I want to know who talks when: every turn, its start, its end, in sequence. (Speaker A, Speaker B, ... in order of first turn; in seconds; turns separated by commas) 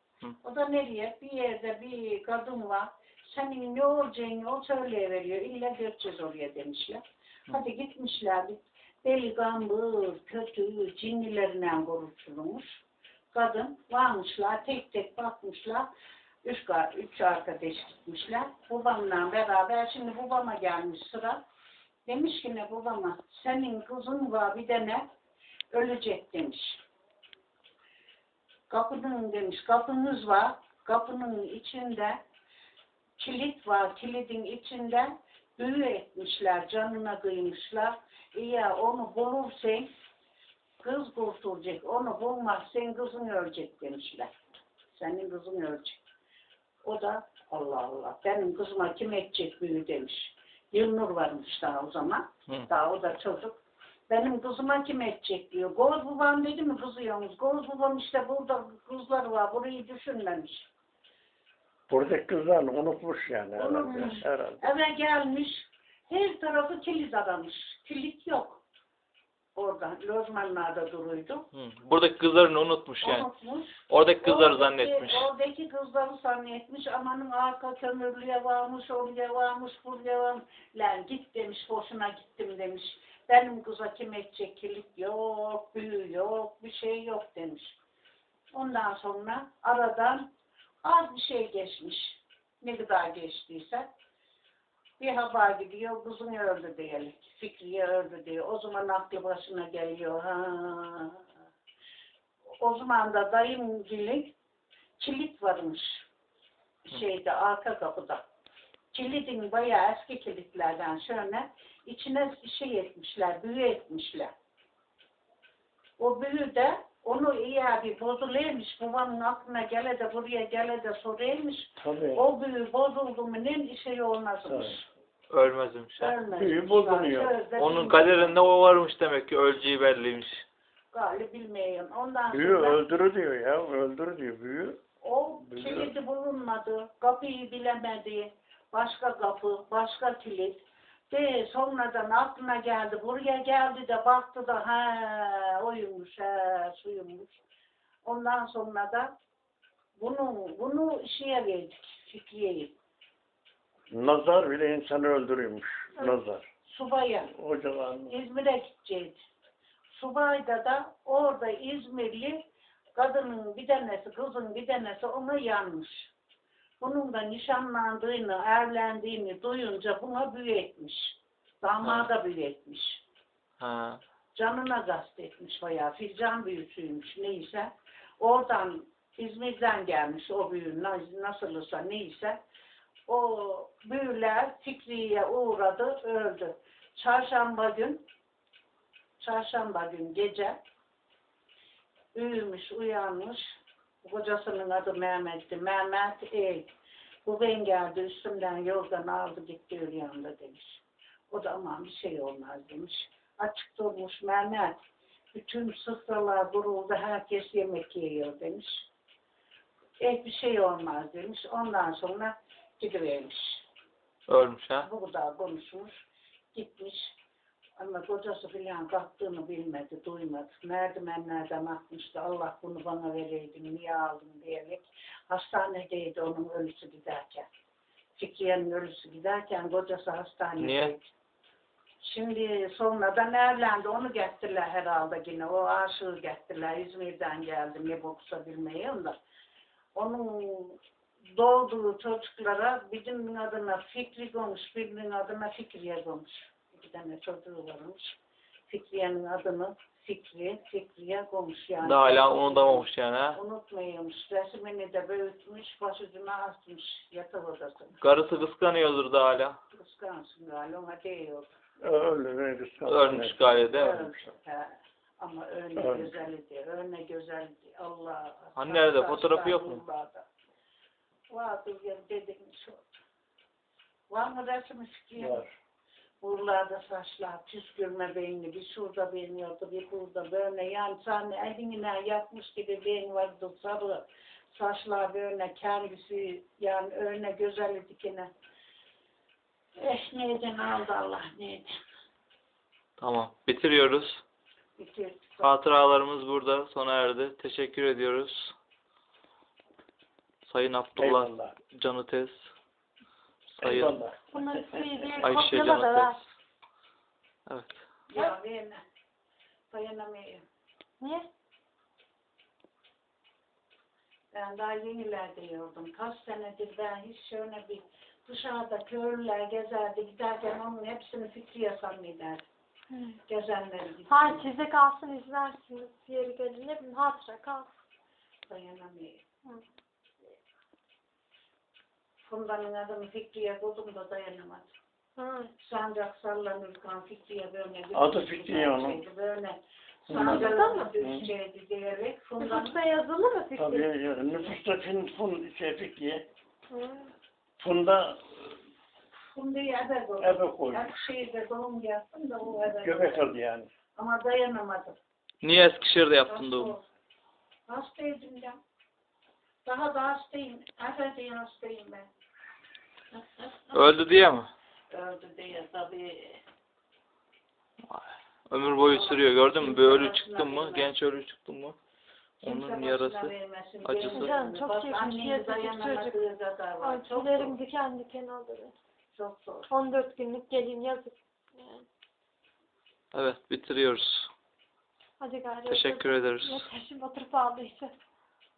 Speaker A: 0.4-12.8, Speaker A: 13.3-15.9, Speaker A: 16.4-21.4, Speaker A: 22.1-25.1, Speaker A: 25.7-26.8, Speaker A: 28.7-32.2, Speaker A: 33.2-39.9, Speaker A: 40.8-44.3, Speaker A: 44.9-46.0, Speaker A: 46.8-53.6, Speaker A: 54.1-60.7, Speaker B: 61.9-64.6, Speaker A: 63.6-68.6, Speaker A: 69.5-71.5, Speaker C: 71.5-73.3, Speaker A: 73.0-87.8, Speaker C: 73.9-75.3, Speaker A: 88.5-90.3, Speaker A: 90.8-93.9, Speaker A: 95.0-101.2, Speaker A: 102.6-104.3, Speaker A: 105.0-106.1, Speaker A: 106.8-108.2, Speaker A: 108.9-114.3, Speaker A: 116.0-124.9, Speaker B: 121.8-122.2, Speaker B: 124.5-124.8, Speaker C: 125.3-126.2, Speaker A: 126.0-128.4, Speaker B: 126.3-127.3, Speaker C: 127.6-130.4, Speaker A: 130.9-132.8, Speaker B: 132.3-134.8, Speaker A: 135.0-147.4, Speaker B: 135.5-135.9, Speaker A: 148.1-149.1, Speaker A: 150.0-152.7, Speaker B: 153.9-156.5, Speaker A: 156.7-157.3, Speaker B: 157.3-158.2, Speaker A: 158.1-159.2, Speaker A: 159.9-166.1, Speaker A: 166.8-173.0, Speaker C: 171.8-172.1, Speaker C: 173.6-174.0, Speaker A: 174.3-182.4, Speaker A: 183.1-188.0, Speaker A: 189.2-190.6, Speaker A: 192.1-196.7, Speaker A: 197.2-208.9, Speaker A: 210.0-213.7, Speaker C: 214.3-214.9, Speaker A: 214.8-216.0, Speaker A: 216.5-217.2, Speaker A: 217.8-227.5, Speaker A: 228.2-231.1, Speaker C: 230.6-230.9, Speaker A: 232.0-239.2, Speaker A: 239.9-258.0, Speaker C: 251.8-253.4, Speaker C: 258.0-259.6, Speaker A: 259.7-261.5, Speaker B: 261.8-263.6, Speaker C: 262.9-264.0, Speaker A: 263.7-270.3, Speaker B: 265.8-266.1, Speaker C: 268.6-269.8, Speaker A: 271.3-273.0, Speaker A: 274.1-275.5, Speaker B: 275.2-275.5, Speaker A: 276.2-288.3, Speaker A: 289.8-291.8, Speaker C: 293.0-294.2, Speaker A: 294.8-295.5, Speaker C: 295.4-298.6, Speaker C: 300.5-302.5, Speaker B: 301.0-301.6, Speaker C: 303.5-304.0, Speaker B: 303.6-305.1, Speaker D: 304.3-306.2, Speaker C: 305.2-306.2, Speaker C: 307.5-307.8, Speaker A: 308.1-308.8, Speaker A: 309.7-310.4, Speaker D: 311.0-311.3, Speaker A: 314.3-322.4, Speaker D: 322.9-323.2, Speaker A: 323.3-324.5, Speaker D: 324.1-327.7, Speaker A: 328.5-329.2, Speaker A: 332.2-334.7, Speaker D: 335.2-335.5, Speaker A: 335.6-342.8, Speaker B: 337.9-339.0, Speaker B: 340.1-341.2, Speaker D: 340.2-340.9, Speaker D: 342.4-343.9, Speaker B: 343.6-346.3, Speaker D: 346.7-347.1, Speaker B: 347.6-348.5, Speaker A: 349.3-353.3, Speaker B: 350.2-350.9, Speaker B: 352.6-353.7, Speaker A: 354.0-355.0, Speaker C: 355.4-356.8, Speaker A: 356.3-356.8, Speaker A: 357.7-358.6, Speaker A: 359.6-362.1, Speaker A: 363.1-363.8, Speaker C: 363.7-364.5, Speaker A: 364.9-366.4, Speaker C: 367.9-371.8, Speaker A: 368.8-370.9, Speaker C: 372.4-374.3, Speaker A: 372.4-377.6, Speaker D: 374.1-376.2, Speaker D: 376.8-378.8, Speaker A: 379.1-379.7, Speaker D: 379.7-381.9, Speaker C: 383.1-384.3, Speaker D: 385.2-387.9, Speaker C: 385.7-386.7